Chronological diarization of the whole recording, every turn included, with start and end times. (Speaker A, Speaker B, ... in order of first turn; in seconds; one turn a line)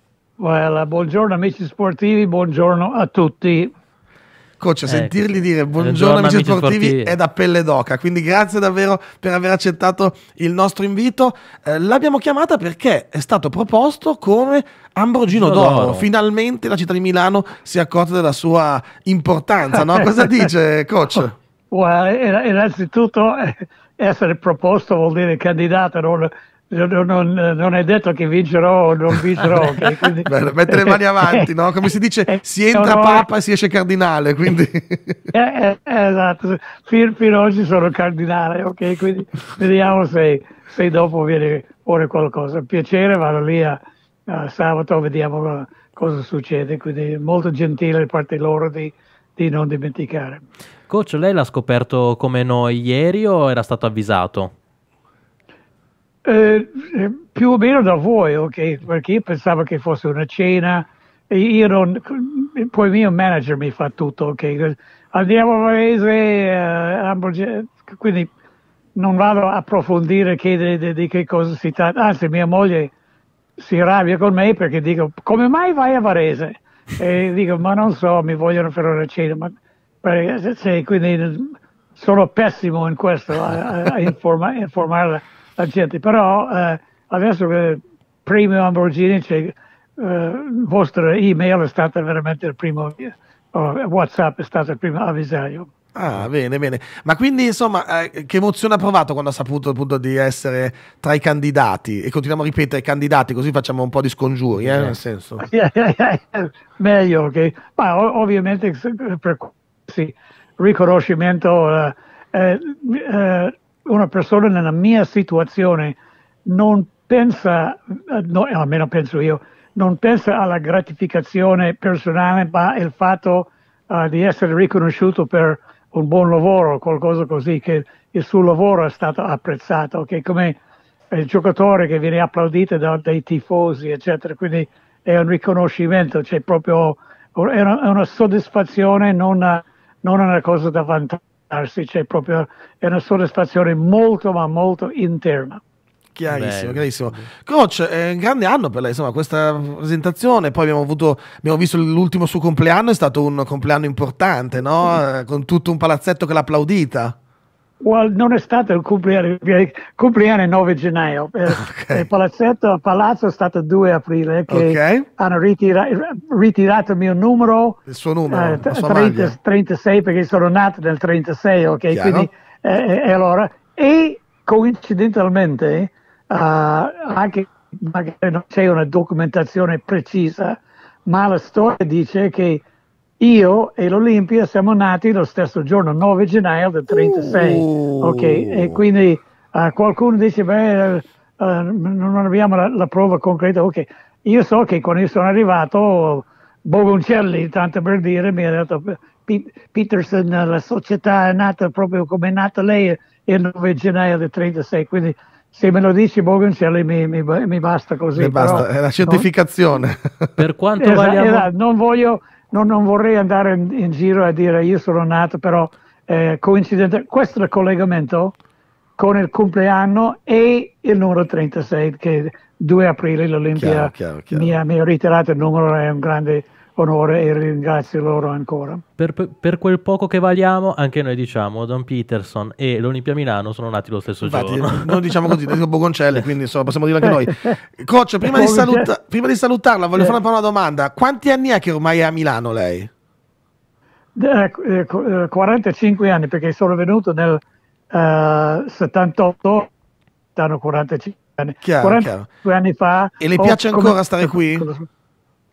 Speaker A: 0.4-3.7
Speaker B: 4.6-21.3
Speaker C: 4.9-5.2
Speaker C: 5.7-7.2
Speaker C: 15.3-16.1
Speaker A: 19.9-20.4
Speaker A: 21.2-31.5
Speaker B: 30.2-35.2
Speaker A: 32.3-33.3
Speaker A: 35.3-50.4
Speaker C: 50.9-54.5
Speaker A: 56.2-68.3
Speaker A: 69.0-72.9
Speaker A: 73.6-95.7
Speaker B: 95.9-105.5
Speaker C: 104.5-105.0
Speaker A: 105.4-130.5
Speaker A: 131.1-145.6
Speaker B: 146.1-157.1
Speaker C: 146.3-147.2
Speaker A: 157.8-182.6
Speaker B: 161.5-162.1
Speaker B: 164.5-165.0
Speaker B: 167.9-169.3
Speaker B: 171.9-172.3
Speaker A: 183.2-209.2
Speaker B: 186.9-188.8
Speaker B: 208.1-210.3
Speaker C: 210.4-211.5
Speaker A: 210.8-218.3
Speaker A: 219.0-228.8
Speaker B: 223.6-224.5
Speaker C: 229.0-235.1
Speaker B: 234.2-242.9
Speaker A: 237.3-237.5
Speaker A: 238.2-238.9
Speaker A: 244.2-249.7
Speaker A: 250.3-254.9
Speaker B: 251.6-252.3
Speaker B: 253.2-254.7